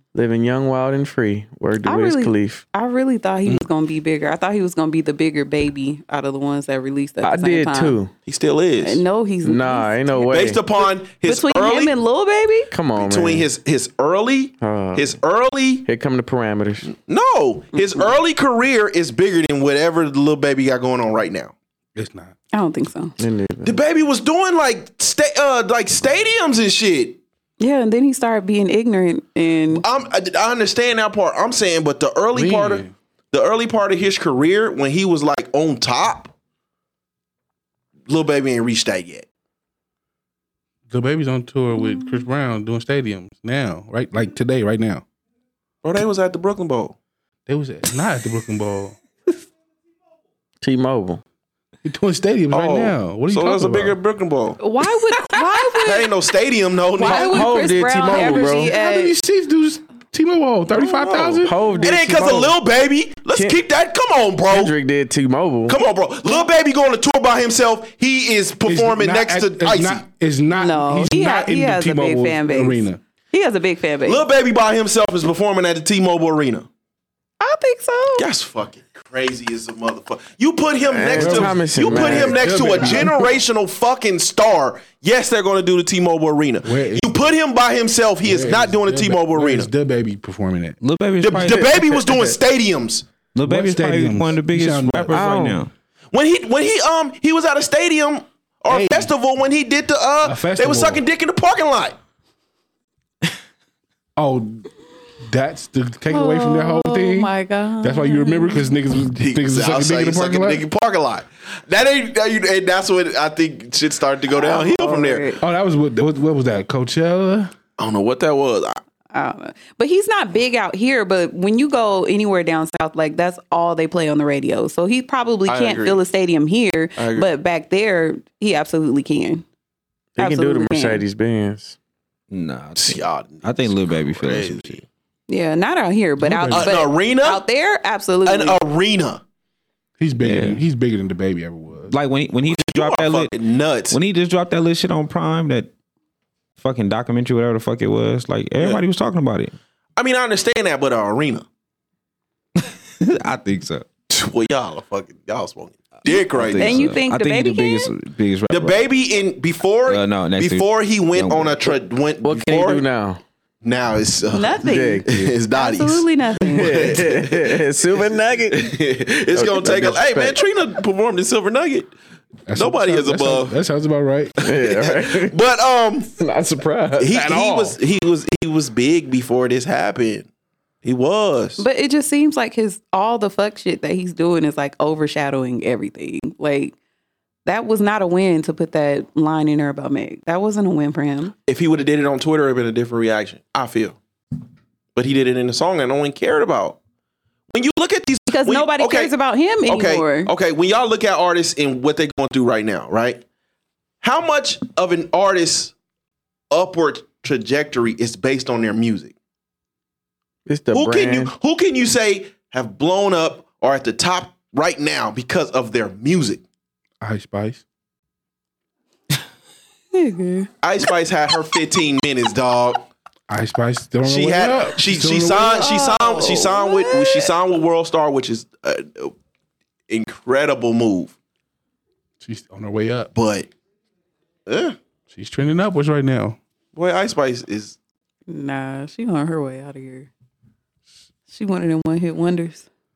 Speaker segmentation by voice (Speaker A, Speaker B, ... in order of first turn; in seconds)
Speaker A: 0.1-2.6, 7.2-8.1, 9.4-10.6, 12.7-13.5, 14.6-15.2, 15.8-16.9, 23.2-23.8, 50.6-51.2, 57.0-58.7, 61.4-62.5, 63.3-63.6, 64.5-65.8, 80.9-83.0, 91.4-92.3, 95.1-95.6, 130.2-131.8, 162.2-163.2, 164.6-165.3, 166.4-168.8, 169.3-170.4, 174.4-175.3, 176.2-177.1, 210.4-211.3
Speaker B: 1.8-8.0, 8.8-10.0, 11.2-12.7, 17.8-18.0, 22.5-23.1, 27.6-29.8, 41.8-42.2, 54.6-56.2, 56.9-59.1, 70.5-74.2, 77.4-78.3, 106.1-108.7, 114.3-115.4, 119.1-129.4, 130.2-131.0, 135.3-138.6, 156.5-157.9, 164.3-166.9, 181.6-186.7, 187.4-191.3, 198.3-200.3, 219.9-220.5, 225.5-227.3, 238.3-240.1, 241.3-242.7
Speaker C: 8.2-9.0, 10.2-11.9, 12.9-15.8, 16.9-21.5, 23.6-27.2, 29.7-36.3, 38.1-39.2, 45.8-47.0, 52.5-54.6, 55.8-57.6, 60.7-64.7, 65.7-70.0, 74.0-76.7, 78.2-89.7, 91.2-93.0, 96.1-102.0, 109.2-115.3, 117.8-118.8, 125.5-126.0, 127.0-127.3, 132.8-134.8, 136.5-137.4, 138.2-139.2, 142.5-144.0, 149.9-151.4, 154.1-156.9, 158.5-162.8, 163.6-167.6, 168.5-171.9, 172.5-173.5, 174.5-176.1, 177.0-180.3, 180.8-181.6, 191.4-194.0, 194.9-196.8, 197.5-199.1, 199.6-203.2, 204.0-205.7, 206.5-209.1, 210.7-216.4, 220.6-222.8, 224.0-229.1, 229.9-231.1, 233.1-233.5, 234.4-234.8, 236.7-237.8
Speaker D: 21.9-22.4, 32.3-32.9, 40.9-45.0, 47.5-49.0, 51.8-54.0, 58.6-61.5, 68.6-73.0, 81.1-83.2, 86.6-87.1, 88.2-90.8, 93.5-95.1, 98.7-99.1, 100.2-101.0, 104.2-104.7, 105.2-107.3, 107.8-110.6, 115.4-117.5, 136.2-136.7, 140.0-141.9, 172.5-174.4, 177.1-177.8, 217.0-217.6, 223.3-225.7, 232.2-233.1, 235.1-236.4
Speaker E: 90.8-91.8, 93.3-95.7, 132.3-134.8, 140.2-140.6, 141.9-143.3, 143.9-145.7, 146.6-149.5, 152.6-153.8, 156.1-158.8, 159.9-161.8